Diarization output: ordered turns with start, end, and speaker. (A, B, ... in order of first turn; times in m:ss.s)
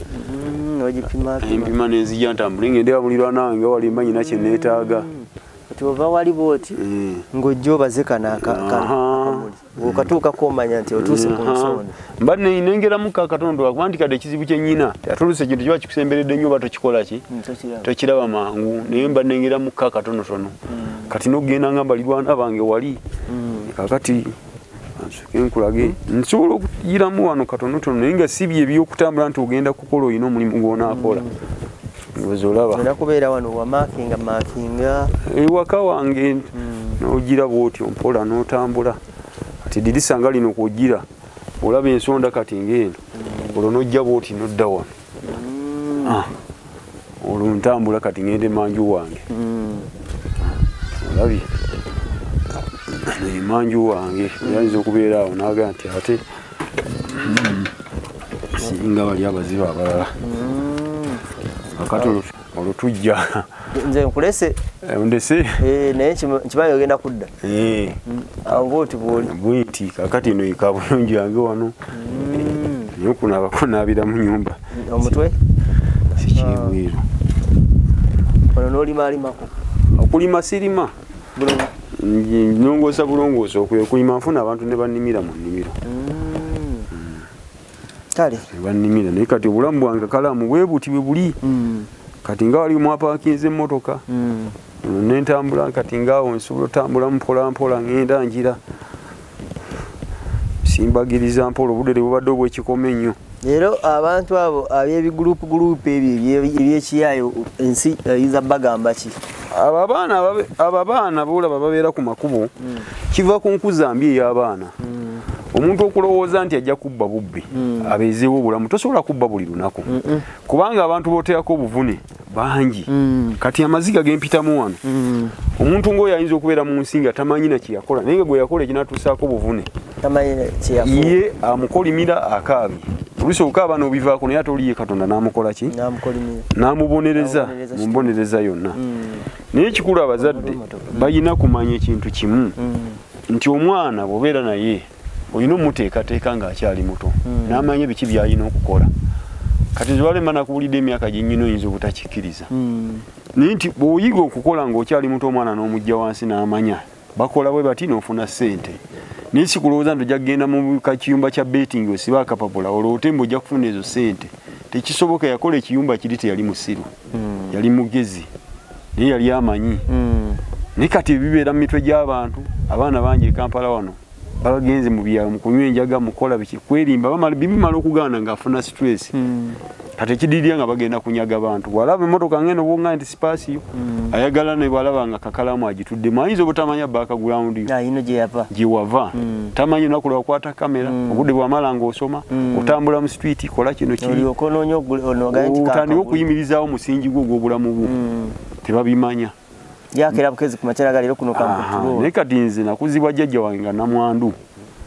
0:00.1-0:01.8 A
0:01.4-0:05.1 B
0:03.9-0:06.8 A
0:06.7-0:07.3 B
0:07.3-0:11.9 A
0:08.3-0:10.1 B
0:10.9-0:17.2 B
0:17.3-0:17.9 A
0:17.8-0:23.0 B
0:20.8-0:21.0 A
0:23.3-0:23.7 A
0:23.7-0:24.4 B
0:25.0-0:31.2 B
0:30.8-0:31.3 A
0:32.1-0:32.8 B
0:32.7-0:35.1 A
0:35.2-0:39.0 B
0:36.5-0:37.0 A
0:39.6-0:41.0 B
0:41.6-0:43.0 B
0:43.5-0:44.9 B
0:45.2-0:46.2 A
0:46.0-0:46.3 B
0:47.2-0:49.3 B
0:49.3-0:49.9 A
0:51.0-0:51.5 B
0:53.0-0:56.2 B
0:54.4-0:54.8 A
0:57.0-0:57.7 B
0:58.6-1:00.2 B
1:00.2-1:01.2 A
1:01.7-1:03.5 B
1:03.7-1:04.6 A
1:04.8-1:05.6 B
1:05.6-1:07.3 A
1:07.4-1:08.0 B
1:08.1-1:09.3 A
1:08.5-1:11.8 B
1:11.9-1:12.9 A
1:12.9-1:15.2 B
1:14.7-1:15.3 A
1:16.1-1:17.0 B
1:16.3-1:16.8 A
1:18.5-1:19.5 A
1:19.9-1:20.9 B
1:21.3-1:21.7 A
1:21.9-1:25.8 B
1:25.8-1:26.9 A
1:26.9-1:27.2 B
1:28.1-1:28.5 A
1:28.5-1:31.4 B
1:31.4-1:31.9 A
1:32.2-1:34.0 B
1:34.1-1:34.5 A
1:34.8-1:38.6 B
1:40.6-1:43.2 B
1:43.4-1:49.2 A
1:49.5-1:52.5 B
1:53.1-1:54.8 B
1:54.8-1:55.2 A
1:55.5-2:04.8 B
1:57.5-1:57.9 A
1:59.8-2:00.3 A
2:02.9-2:03.4 A
2:04.8-2:05.4 A
2:05.5-2:09.7 B
2:10.0-2:11.2 A
2:10.8-2:15.7 B
2:15.7-2:16.5 A
2:16.5-2:18.8 B
2:17.1-2:18.1 A
2:18.7-2:19.2 A
2:19.5-2:22.6 B
2:20.2-2:21.1 A
2:22.6-2:23.0 A
2:23.3-2:28.9 B
2:27.2-2:27.6 A
2:29.7-2:32.5 B
2:32.5-2:33.0 A
2:33.3-2:38.8 B
2:39.3-2:46.9 B
2:47.1-2:47.5 A
2:47.5-2:48.3 B
2:48.9-2:49.8 B
2:49.9-2:50.4 A
2:50.8-2:59.1 B
2:59.1-2:59.6 A
3:00.0-3:07.7 B
3:03.7-3:04.2 A
3:07.7-3:08.5 A
3:08.5-3:14.3 B
3:09.1-3:09.5 A
3:10.8-3:11.3 A
3:12.3-3:12.8 A
3:14.0-3:16.3 A
3:15.3-3:17.9 B
3:17.8-3:18.4 A
3:18.6-3:19.3 B
3:19.9-3:22.1 A
3:21.3-3:24.4 B